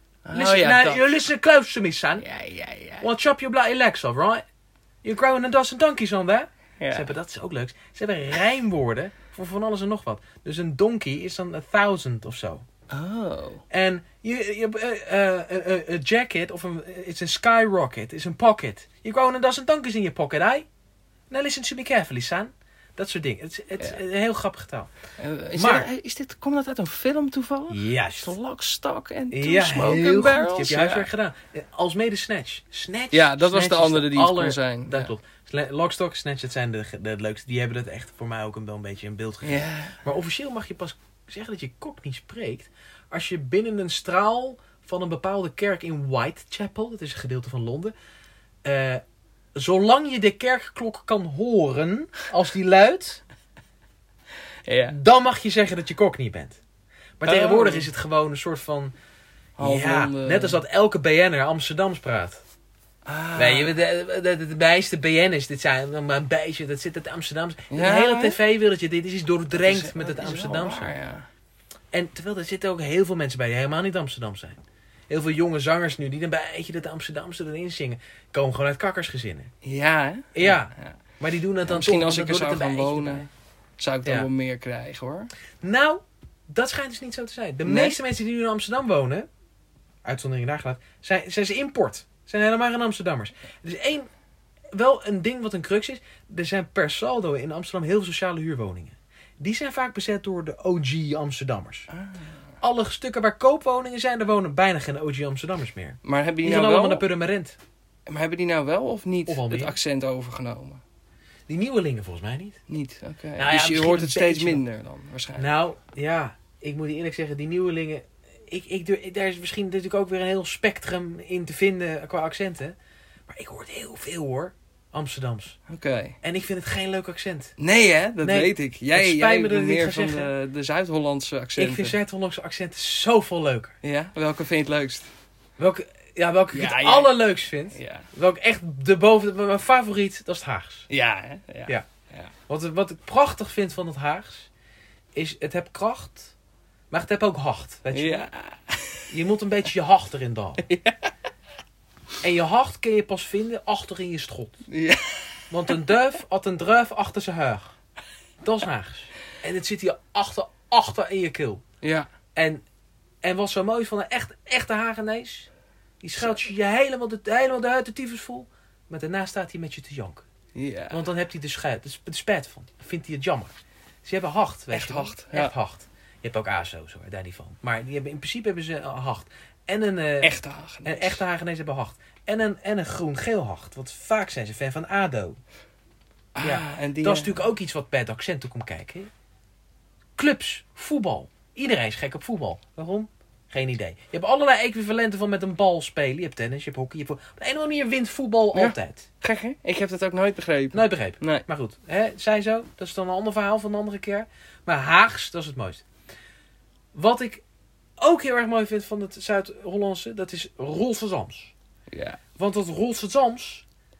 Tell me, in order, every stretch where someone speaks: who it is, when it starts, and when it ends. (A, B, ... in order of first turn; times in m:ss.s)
0:00.2-0:01.0 A
0:00.3-0:02.2 B
0:02.2-0:03.1 A
0:03.0-0:04.4 B
0:05.0-0:12.6 B
0:06.8-0:07.1 A
0:12.9-0:13.6 A
0:13.7-0:20.7 B
0:21.3-0:24.9 B
0:25.2-0:31.1 A
0:25.6-0:25.9 B
0:27.7-0:28.3 B
0:29.3-0:47.9 B
0:33.1-0:35.1 A
0:39.4-0:40.0 A
0:48.6-0:49.0 B
0:49.6-0:53.2 B
0:54.7-0:55.0 A
0:54.9-0:56.6 B
0:57.2-0:58.9 B
0:57.2-0:57.9 A
0:59.6-1:00.6 A
0:59.6-1:02.4 B
1:03.0-1:03.7 A
1:03.4-1:10.9 B
1:07.7-1:08.4 A
1:09.6-1:11.3 A
1:11.9-1:19.5 B
1:19.6-1:21.0 A
1:20.3-1:23.2 B
1:21.6-1:25.3 A
1:25.6-1:29.3 B
1:27.6-1:28.0 A
1:30.0-1:34.1 B
1:34.7-1:41.9 B
1:41.9-1:42.3 A
1:42.6-1:47.6 B
1:46.0-1:47.1 A
1:48.1-1:50.8 A
1:49.3-1:49.8 B
1:51.5-1:52.6 B
1:52.7-1:55.5 A
1:53.4-1:54.6 B
1:55.4-2:02.8 B
2:03.3-2:05.6 B
2:05.7-2:06.2 A
2:06.2-2:07.5 B
2:07.6-2:12.0 A
2:08.2-2:10.3 B
2:11.6-2:13.7 B
2:13.8-2:15.1 A
2:15.6-2:20.8 B
2:16.5-2:17.2 A
2:17.7-2:18.1 A
2:20.9-2:22.3 A
2:22.5-2:24.5 B
2:25.1-2:26.3 B
2:26.9-2:28.3 B
2:27.9-2:29.1 A
2:29.1-2:30.6 B
2:30.6-2:31.1 A
2:32.2-2:34.6 B
2:34.7-2:35.4 A
2:35.5-2:37.7 B
2:38.4-2:41.6 B
2:41.8-2:42.1 A
2:42.4-2:42.6 B
2:43.2-2:45.5 B
2:46.0-2:50.2 B
2:50.5-2:51.1 A
2:50.9-3:05.4 B
2:54.7-2:55.5 A
3:00.2-3:01.2 A
3:06.3-3:07.4 A
3:06.4-3:09.1 B
3:10.2-3:19.1 B
3:18.5-3:21.4 A
3:20.7-3:25.8 B
3:26.9-3:27.4 B
3:28.0-3:31.5 B
3:31.9-3:32.2 A
3:32.4-3:33.6 B